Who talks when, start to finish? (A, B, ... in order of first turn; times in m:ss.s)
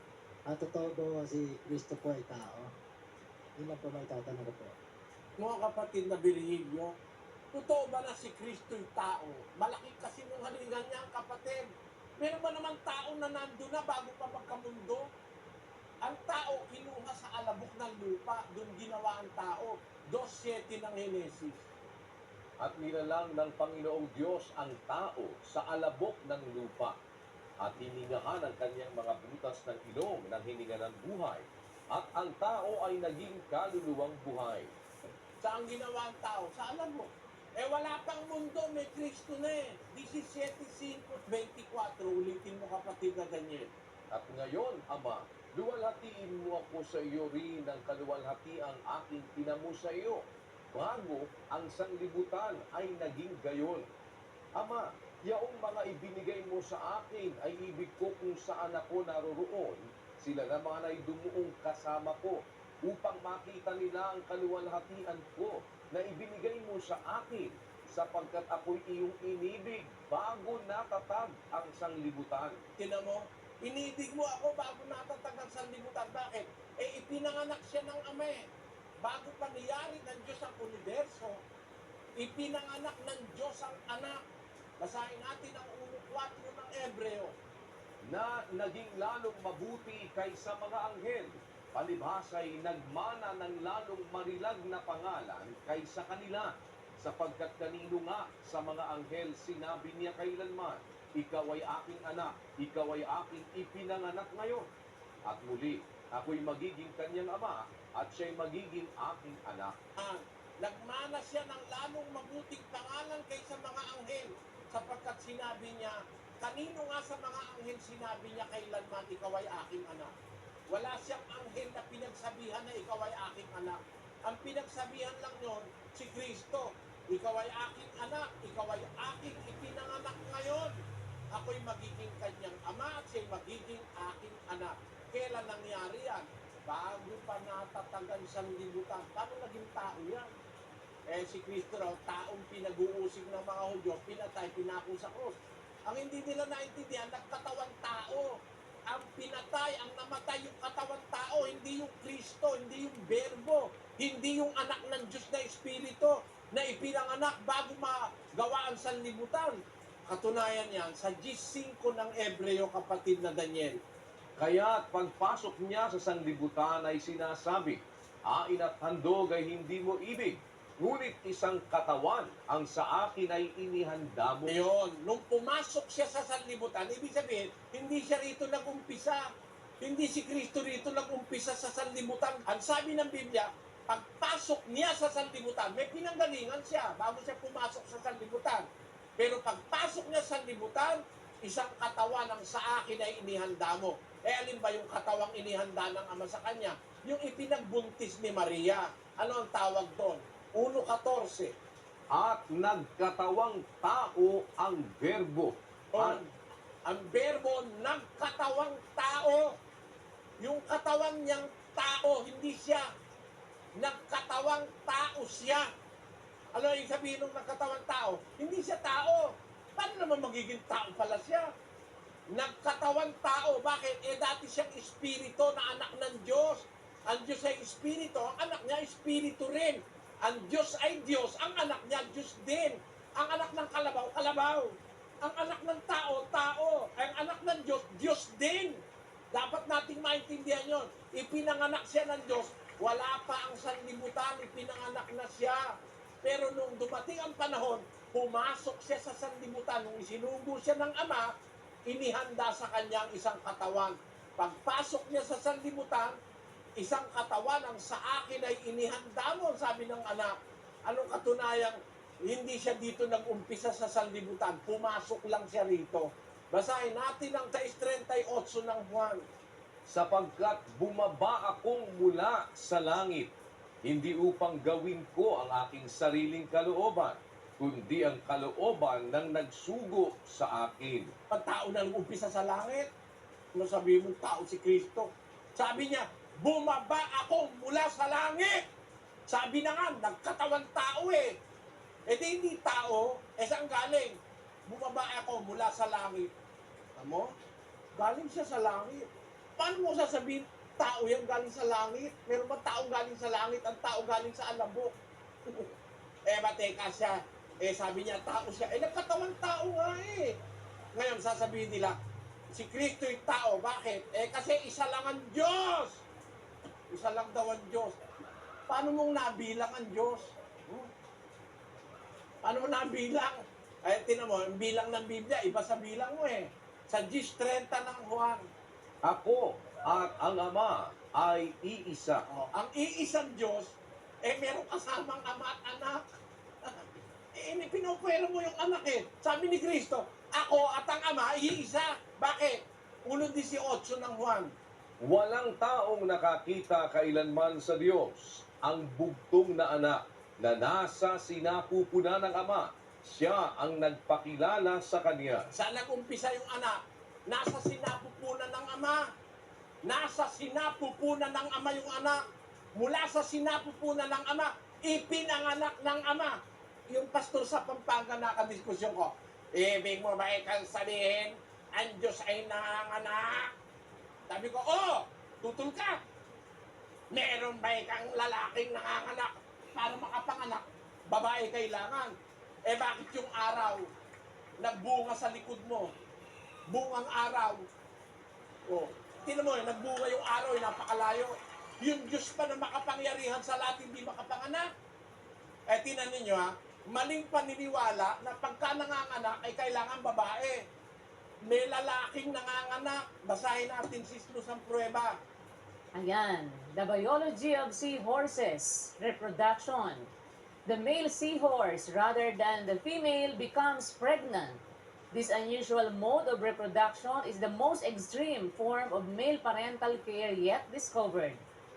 0:00.5-0:02.7 A
0:03.6-0:04.8 A
0:05.4-0:06.9 B
0:07.5-0:11.6 B
0:12.2-0:15.0 B
0:16.0-0:21.7 B
0:22.6-0:27.0 C
0:27.6-0:34.7 C
0:35.4-0:43.7 B
0:44.1-0:53.9 C
0:54.6-1:12.6 C
1:12.8-1:18.4 B
1:19.0-1:21.4 B
1:22.2-1:24.2 B
1:24.8-1:27.3 B
1:28.0-1:44.7 C
1:45.2-1:49.8 C
1:50.0-2:00.1 B
2:00.7-2:10.8 B
2:11.3-2:20.3 B
2:21.1-2:43.8 B
2:44.4-2:54.5 C
2:54.5-2:59.2 B
2:59.8-3:08.6 B
3:09.2-3:21.5 B
3:22.1-3:26.2 C
3:25.9-3:26.3 B
3:26.8-3:29.5 B
3:30.4-3:32.9 B
3:33.8-3:35.7 B
3:36.5-3:41.5 B
3:42.3-3:54.7 B
3:55.2-4:05.7 B
4:06.2-4:11.3 B
4:11.9-4:16.1 B
4:16.8-4:20.3 B
4:20.8-4:29.2 B
4:29.8-4:33.3 C
4:33.8-4:41.1 C
4:41.3-4:42.9 B
4:43.5-4:48.6 B
4:49.3-4:51.3 B
4:52.1-4:56.3 B
4:57.0-4:57.3 B
4:58.0-4:59.0 B
4:59.6-5:04.9 B
5:06.3-5:10.3 B
5:10.9-5:12.0 B
5:12.5-5:16.0 B
5:16.9-5:18.0 B
5:18.7-5:20.9 B
5:22.4-5:28.4 B
5:29.0-5:32.2 C
5:32.3-5:36.0 B
5:37.3-5:44.5 B
5:45.0-5:55.5 C
5:55.5-5:59.0 B
5:59.8-6:02.2 B
6:02.7-6:06.4 B
6:06.9-6:13.5 B
6:14.3-6:16.0 B
6:17.1-6:22.1 B
6:22.7-6:23.8 B
6:24.6-6:25.9 B
6:26.7-6:27.6 B
6:28.7-6:34.7 B
6:35.7-6:40.6 B
6:41.4-6:45.1 B
6:45.9-6:50.1 D
6:50.6-7:01.4 D